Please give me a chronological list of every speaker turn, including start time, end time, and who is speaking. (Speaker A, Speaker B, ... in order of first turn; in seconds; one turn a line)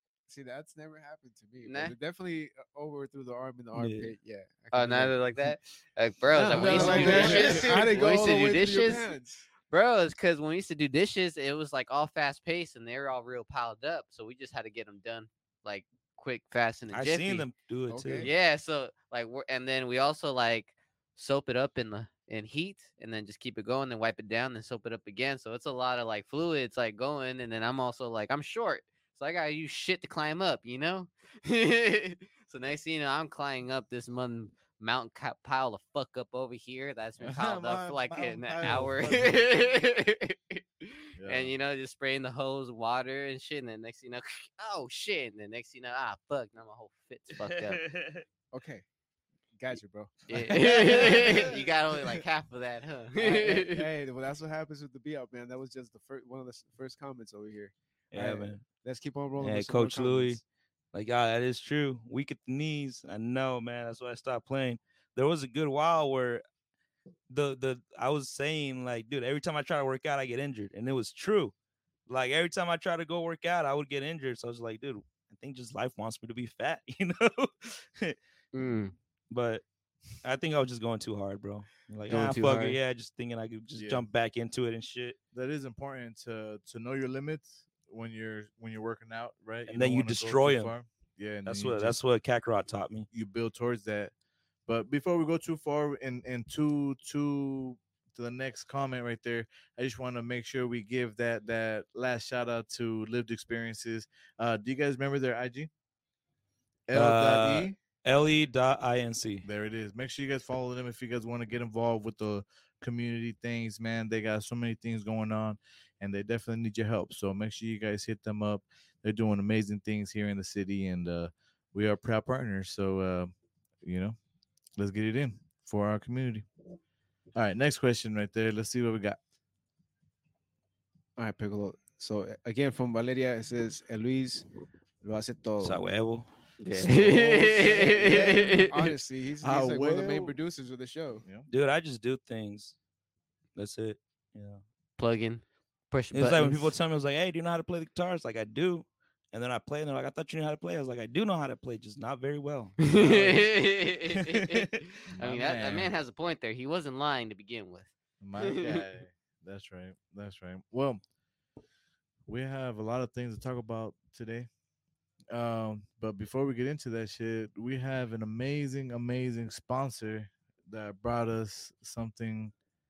Speaker A: 0.3-5.5
Speaker B: 1.6-1.9
Speaker C: 3.7-4.1
Speaker B: 4.7-9.1
Speaker A: 6.3-9.5
Speaker D: 6.7-7.4
Speaker C: 6.7-7.4
Speaker B: 9.7-17.5
Speaker C: 16.9-18.3
Speaker A: 17.9-18.3
Speaker B: 18.2-47.8
Speaker D: 37.2-39.5
Speaker D: 41.2-41.5
Speaker C: 47.3-48.2
Speaker A: 48.5-48.9
Speaker A: 49.6-51.6
Speaker B: 50.3-53.9
Speaker C: 50.6-51.3
Speaker A: 53.2-60.4
Speaker C: 58.1-58.6
Speaker C: 59.4-66.4
Speaker C: 67.3-71.5
Speaker C: 72.1-78.2
Speaker B: 78.5-79.0
Speaker C: 79.3-79.6
Speaker C: 80.2-85.2
Speaker D: 82.1-82.4
Speaker A: 82.1-82.7
Speaker D: 83.8-84.1
Speaker D: 85.3-92.0
Speaker C: 89.7-90.7
Speaker C: 91.5-93.1
Speaker D: 93.1-94.1
Speaker D: 94.7-105.7
Speaker D: 106.9-107.8
Speaker C: 106.9-109.5
Speaker D: 109.4-124.2
Speaker D: 124.8-126.5
Speaker D: 127.4-129.2
Speaker A: 131.2-134.5
Speaker A: 135.0-135.8
Speaker C: 135.6-137.1
Speaker B: 136.6-138.7
Speaker A: 136.9-141.2
Speaker D: 139.4-140.4
Speaker C: 141.5-142.8
Speaker C: 143.6-144.6
Speaker B: 145.0-146.7
Speaker C: 146.1-154.6
Speaker B: 152.9-154.7
Speaker D: 155.1-155.9
Speaker B: 155.2-158.8
Speaker D: 158.2-161.0
Speaker D: 162.3-164.5
Speaker D: 165.3-172.5